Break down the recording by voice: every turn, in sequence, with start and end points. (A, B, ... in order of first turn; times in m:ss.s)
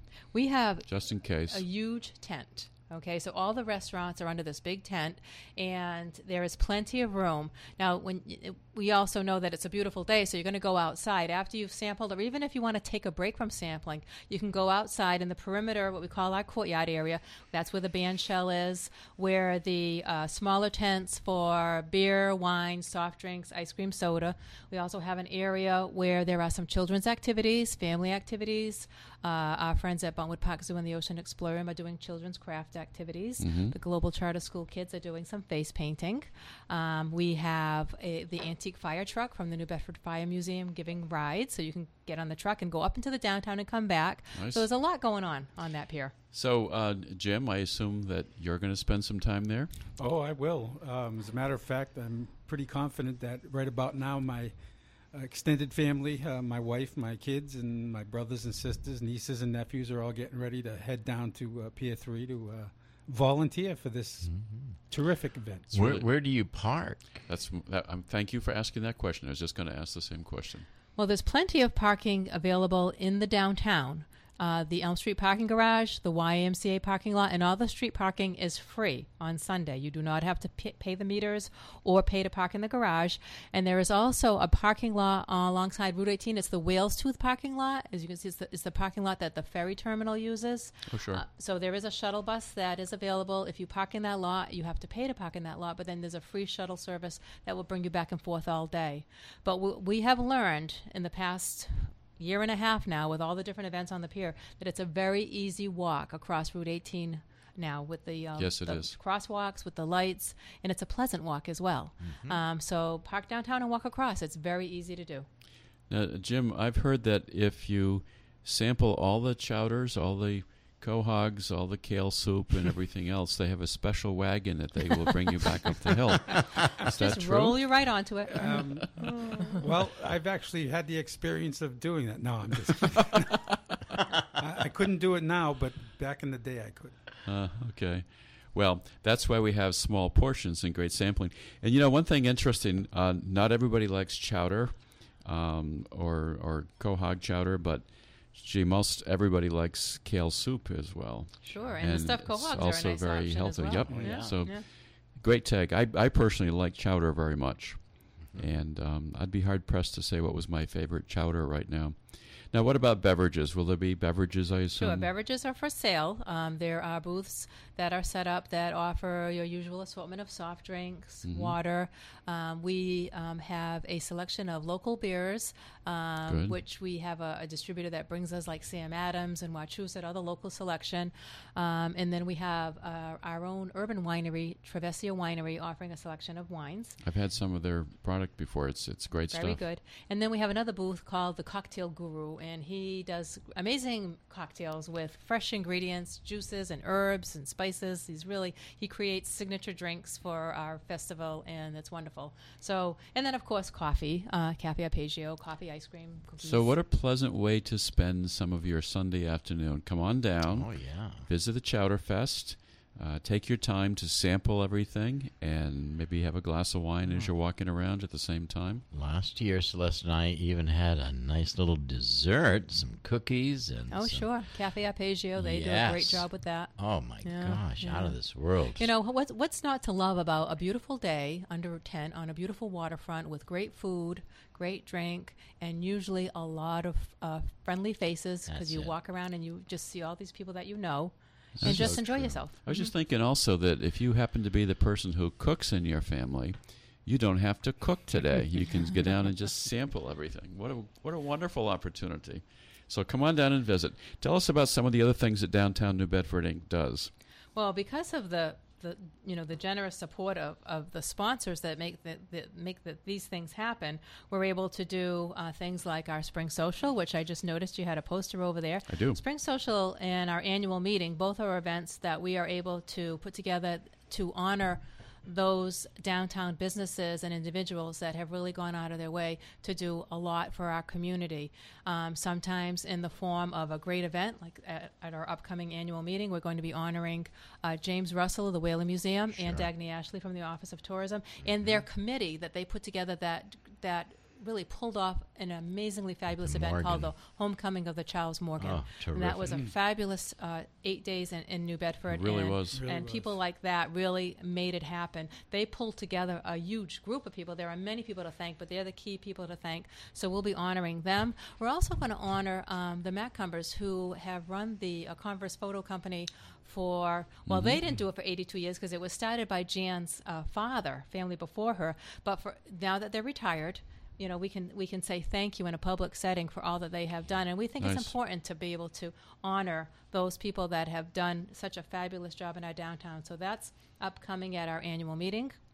0:00.3-0:00.9 A
0:00.9-0:01.6 B
0:01.5-0:46.1 A
0:33.4-0:33.8 B
0:44.4-0:44.7 B
0:46.3-0:49.7 B
0:50.0-0:54.6 C
0:55.1-1:05.8 C
1:04.2-1:04.8 D
1:05.7-1:07.2 D
1:05.7-1:06.1 B
1:07.2-1:10.7 B
1:11.0-1:55.3 A
1:30.9-1:31.2 B
1:48.4-1:49.0 B
1:52.0-1:52.4 D
1:55.9-2:07.9 B
2:06.9-2:09.6 A
2:08.3-2:13.5 C
2:14.3-2:17.0 C
2:17.2-2:45.1 B
2:31.4-2:34.7 A
2:33.9-2:34.1 C
2:34.0-2:34.4 D
2:38.2-2:38.5 D
2:44.8-3:07.0 A
2:51.2-2:51.6 B
2:56.3-2:56.6 B
3:07.0-3:09.6 B
3:09.3-3:26.8 A
3:26.4-3:38.8 B
3:30.5-3:31.3 D
3:38.9-3:44.4 D
3:43.9-3:48.2 A
3:45.4-3:48.9 D
3:48.8-4:02.9 A
3:58.5-3:58.9 D
4:01.6-4:17.1 B
4:01.6-4:02.4 D
4:08.7-4:09.0 A
4:17.6-5:35.6 A
4:28.9-4:29.2 B
4:49.3-4:49.7 D
4:56.3-4:57.1 D
4:58.6-4:59.6 D
5:02.1-5:02.8 B
5:02.7-5:03.3 C
5:17.5-5:17.8 B
5:27.8-5:28.1 B